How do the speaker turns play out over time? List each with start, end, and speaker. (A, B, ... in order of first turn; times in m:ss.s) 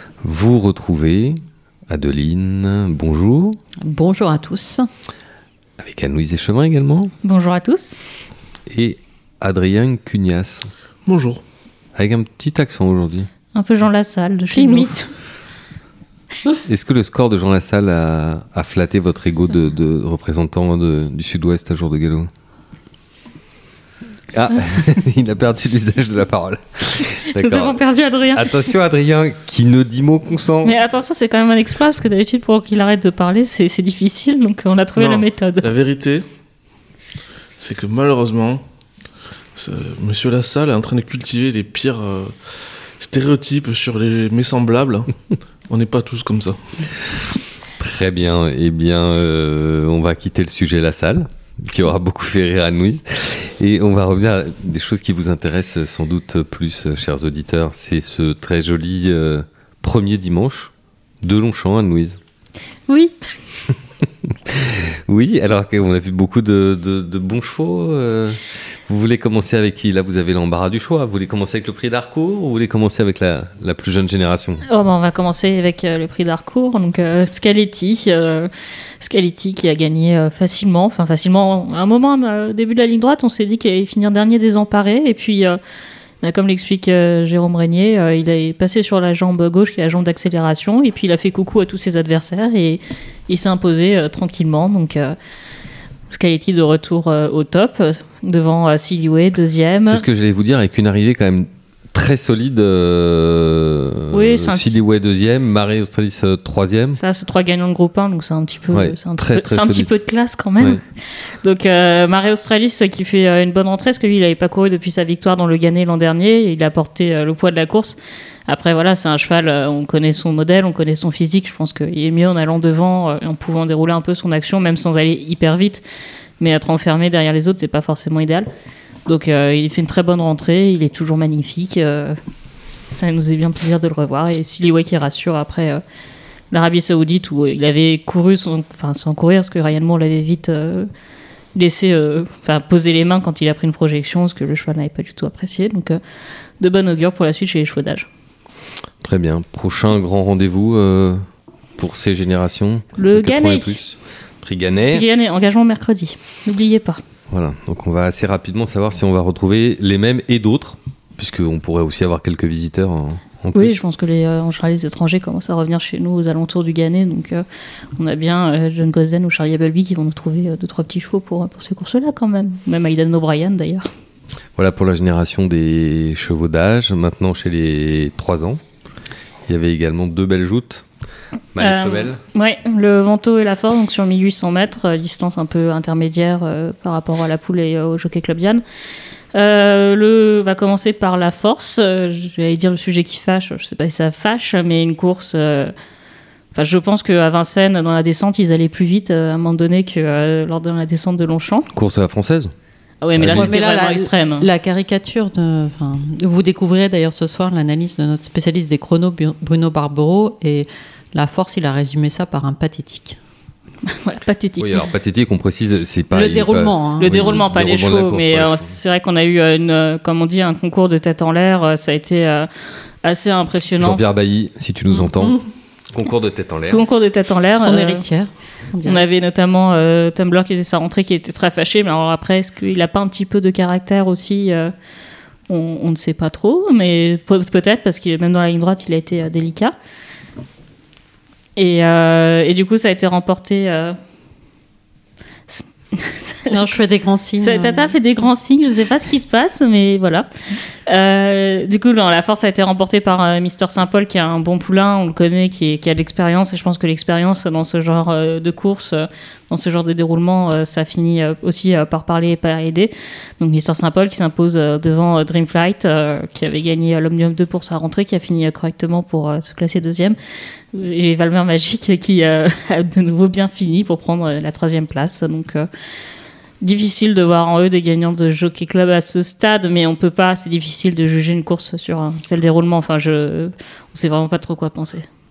0:00.2-0:03.6 A
0:03.8-0:04.9 B
0:05.8-0:07.1 A
0:07.2-0:08.0 C
0:08.7-0:10.7 A
0:11.0-0:11.4 D
0:12.0-0:13.3 A
0:13.5-0:14.9 C
0:14.5-0:15.1 B
0:16.6-0:22.3 A
0:24.3-0:27.8 A
0:27.4-0:28.7 C
0:28.3-0:30.8 A
0:30.6-0:35.7 C
0:35.0-0:36.2 D
0:37.6-0:38.6 D
0:39.6-0:42.3 D
0:43.0-0:45.1 D
0:45.7-0:46.6 D
0:47.8-1:00.7 A
1:01.2-1:02.2 A
1:02.9-1:03.1 B
1:04.3-1:14.6 A
1:14.7-1:18.5 C
1:19.0-1:25.6 C
1:26.2-1:35.2 C
1:36.1-1:40.0 C
1:39.9-1:47.0 A
1:44.1-1:44.8 C
1:47.0-1:50.8 C
1:48.7-1:49.9 A
1:51.4-1:58.0 C
1:58.5-2:05.8 C
2:06.4-2:08.5 C
2:09.0-2:12.2 C
2:12.9-2:15.8 C
2:16.5-2:20.9 C
2:21.5-2:26.0 C
2:26.6-2:28.1 C
2:29.0-2:31.2 A
2:31.8-2:35.0 A
2:33.0-2:33.8 C
2:34.9-2:37.0 C
2:37.3-2:43.8 A
2:43.5-2:47.4 C
2:48.0-2:53.9 C
2:54.6-2:58.6 A
2:59.5-3:00.8 A
3:01.5-3:02.2 A
3:01.6-3:08.6 C
3:09.3-3:15.7 C
3:16.5-3:21.7 C
3:21.7-3:22.5 A
3:23.0-3:24.5 C
3:23.2-3:23.5 A
3:23.3-3:33.2 B
3:33.9-3:34.8 C
3:34.6-3:38.7 A
3:36.1-3:37.1 B
3:37.0-3:42.5 C
3:43.0-3:44.0 C
3:43.8-3:45.4 A
3:45.9-3:46.8 A
3:46.7-3:48.0 C
3:47.5-3:49.0 B
3:48.8-3:54.7 C
3:55.5-3:59.8 C
4:01.6-4:04.0 C
4:05.5-4:06.6 C
4:06.5-4:07.9 B
4:07.4-4:10.3 C
4:10.8-4:30.2 C
4:30.7-4:35.7 C
4:36.6-4:45.1 C